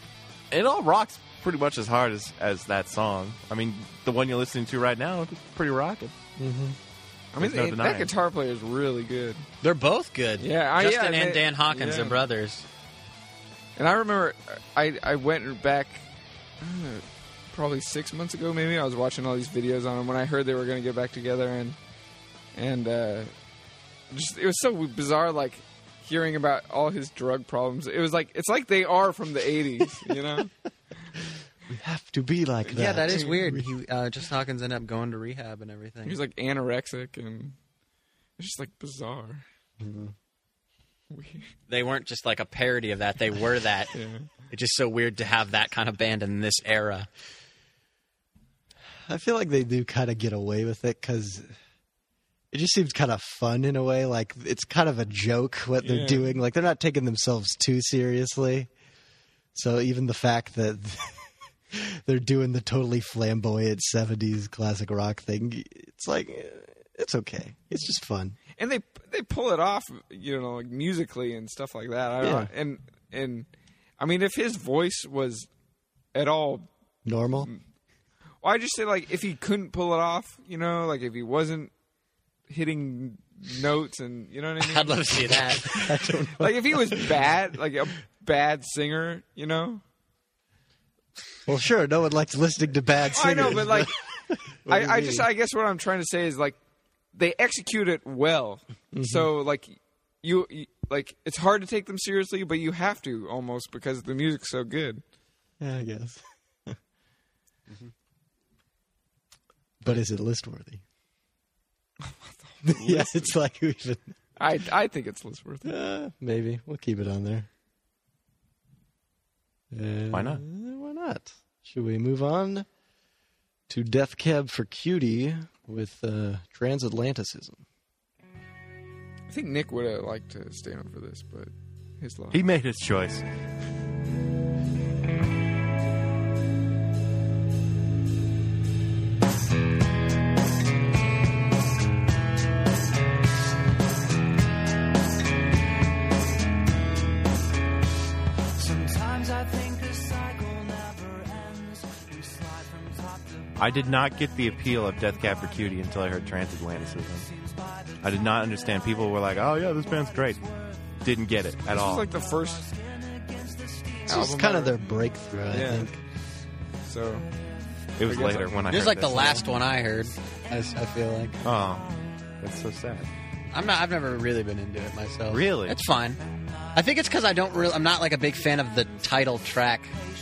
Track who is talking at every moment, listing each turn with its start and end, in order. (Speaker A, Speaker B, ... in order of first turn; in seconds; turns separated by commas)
Speaker A: 0.5-6.1, Speaker B: 6.4-6.8, Speaker C: 7.3-9.5, Speaker A: 7.4-8.1, Speaker D: 9.6-12.6, Speaker C: 10.4-12.2, Speaker C: 13.8-16.1, Speaker C: 16.6-21.8, Speaker C: 22.5-23.3, Speaker C: 24.1-30.5, Speaker B: 31.7-33.7, Speaker D: 32.7-36.2, Speaker C: 36.0-37.6, Speaker C: 38.4-39.4, Speaker B: 39.8-40.1, Speaker C: 41.1-41.5, Speaker D: 41.7-43.9, Speaker C: 43.9-44.3, Speaker D: 44.5-47.1, Speaker B: 49.1-51.5, Speaker B: 52.5-58.7, Speaker C: 55.8-56.4, Speaker B: 59.5-68.4, Speaker C: 68.6-75.5, Speaker B: 72.2-72.5, Speaker C: 76.1-76.7, Speaker B: 77.0-77.5, Speaker C: 78.4-81.7, Speaker C: 82.5-85.4, Speaker D: 84.6-85.9, Speaker B: 85.6-87.2, Speaker C: 86.4-89.8, Speaker B: 91.5-95.3, Speaker C: 93.1-94.0, Speaker C: 94.7-96.6, Speaker C: 97.1-105.0, Speaker B: 98.9-99.3, Speaker B: 105.6-106.8, Speaker B: 109.8-110.8, Speaker C: 112.1-113.3, Speaker B: 112.6-114.2, Speaker C: 114.4-115.7, Speaker B: 115.6-117.5, Speaker B: 119.7-122.7, Speaker A: 120.1-120.4, Speaker B: 123.7-127.6, Speaker C: 129.3-132.4, Speaker A: 132.3-133.2, Speaker E: 148.6-153.5, Speaker A: 153.6-157.3, Speaker A: 158.0-160.4, Speaker A: 161.0-162.1, Speaker C: 161.7-162.7, Speaker E: 163.2-164.0, Speaker C: 164.1-164.8, Speaker B: 164.1-166.0, Speaker C: 165.5-165.9, Speaker C: 166.8-167.3, Speaker A: 168.0-169.5, Speaker C: 168.0-168.6, Speaker D: 168.7-171.4, Speaker A: 171.4-173.1, Speaker D: 173.5-176.2, Speaker A: 175.3-175.8, Speaker D: 176.7-180.0